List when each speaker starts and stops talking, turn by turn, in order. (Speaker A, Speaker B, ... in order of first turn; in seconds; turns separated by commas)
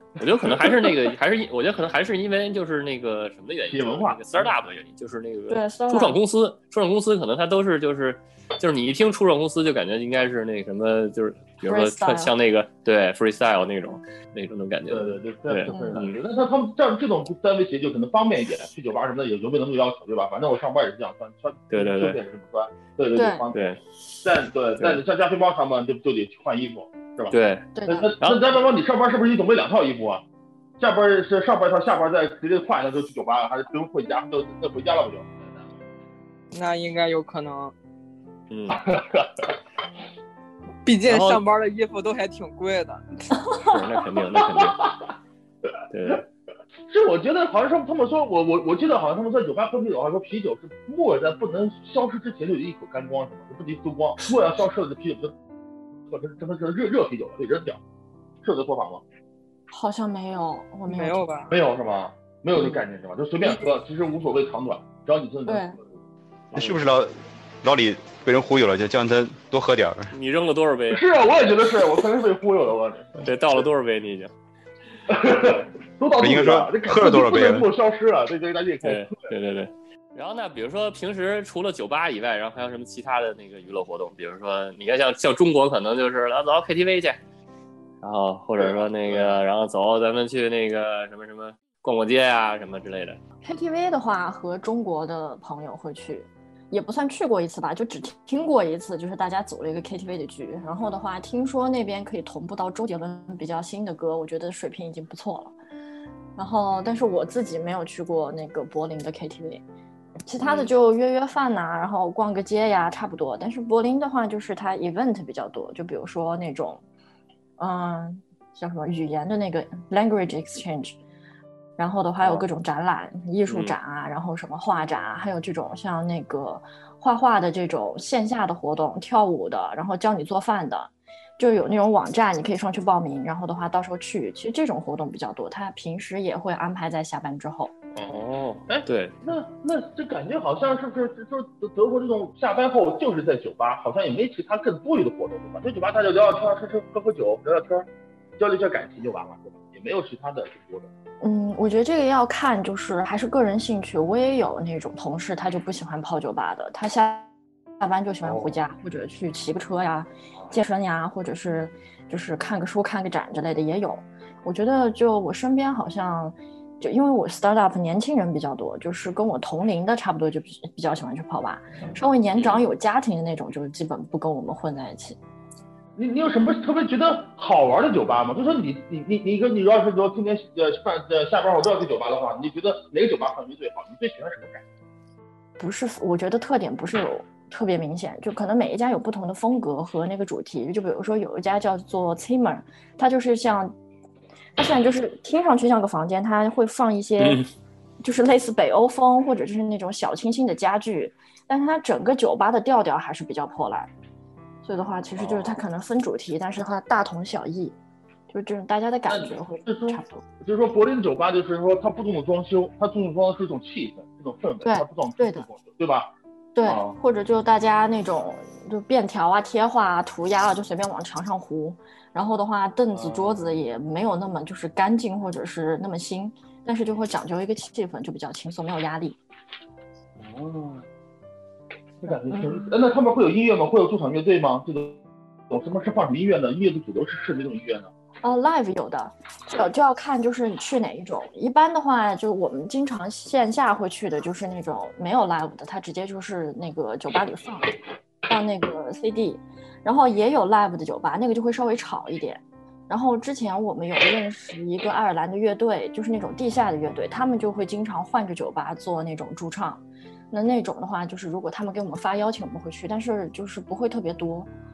Speaker A: 0.2-16.2, Speaker B: 3.7-4.6, Speaker C: 5.5-6.2, Speaker C: 11.6-12.3, Speaker B: 14.9-23.6, Speaker C: 15.7-16.0, Speaker A: 21.7-22.2, Speaker C: 23.1-23.5, Speaker A: 23.5-23.8, Speaker B: 24.2-27.4, Speaker A: 27.3-27.7, Speaker C: 27.8-28.1, Speaker B: 27.9-30.2, Speaker A: 28.2-28.5, Speaker B: 30.8-35.5, Speaker D: 36.5-37.7, Speaker A: 38.5-38.8, Speaker B: 38.7-39.5, Speaker D: 40.9-43.0, Speaker A: 41.1-41.4, Speaker A: 43.6-44.8, Speaker B: 44.3-45.1, Speaker A: 45.9-46.3, Speaker B: 46.9-55.4, Speaker B: 56.1-57.8, Speaker B: 58.4-59.0, Speaker C: 59.7-61.2, Speaker D: 60.9-61.5, Speaker B: 61.5-65.8, Speaker C: 62.6-62.8, Speaker C: 65.5-65.8, Speaker A: 66.5-66.8, Speaker E: 66.5-70.1, Speaker A: 70.1-71.0, Speaker B: 70.9-73.6, Speaker A: 73.2-74.3, Speaker B: 75.1-79.2, Speaker E: 76.2-77.7, Speaker A: 78.8-87.2, Speaker A: 88.0-93.2, Speaker B: 88.6-89.4, Speaker C: 93.4-105.6, Speaker C: 106.4-109.6, Speaker C: 110.3-116.8, Speaker C: 117.6-121.0, Speaker C: 121.8-137.7, Speaker A: 123.5-123.8, Speaker B: 137.9-147.9, Speaker A: 138.1-139.2, Speaker B: 148.4-150.9, Speaker C: 151.2-175.2, Speaker B: 158.2-158.6, Speaker B: 176.0-184.6, Speaker C: 185.6-193.8, Speaker C: 194.6-197.5, Speaker A: 197.2-197.5, Speaker C: 198.0-203.9, Speaker C: 204.6-207.8, Speaker B: 205.2-205.6, Speaker C: 208.3-210.2, Speaker B: 209.1-216.1, Speaker C: 214.6-215.5, Speaker C: 216.6-229.2, Speaker B: 216.6-217.0, Speaker B: 222.9-223.5, Speaker B: 230.2-230.8, Speaker B: 232.0-237.9, Speaker C: 232.1-232.7, Speaker C: 238.2-247.7, Speaker C: 248.3-264.5